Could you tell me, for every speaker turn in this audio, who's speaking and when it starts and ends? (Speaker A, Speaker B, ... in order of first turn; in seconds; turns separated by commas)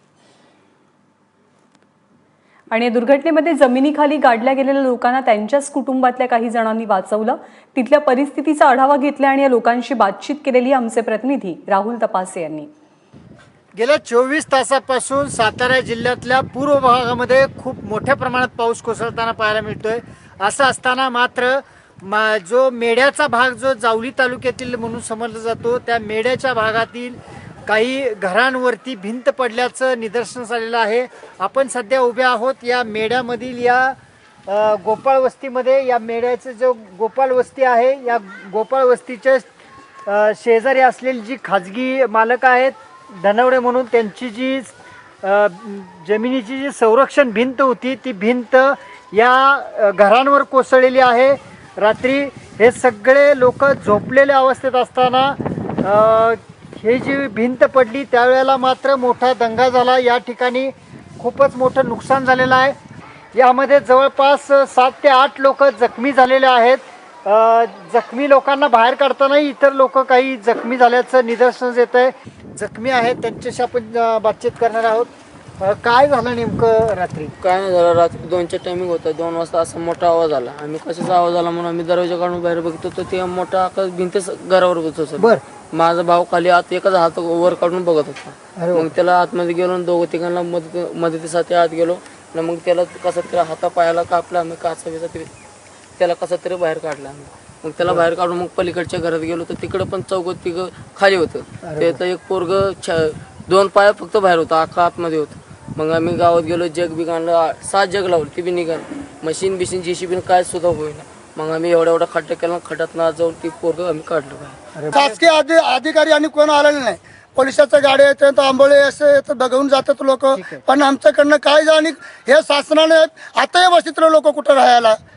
Speaker A: 2.7-12.7, Speaker B: 13.7-34.0, Speaker B: 34.5-39.5, Speaker B: 40.0-62.8, Speaker B: 63.3-77.3, Speaker C: 77.4-95.3, Speaker B: 88.5-88.9, Speaker C: 96.0-114.6, Speaker B: 101.6-102.0, Speaker B: 114.7-115.2, Speaker D: 114.9-125.0, Speaker B: 120.3-120.6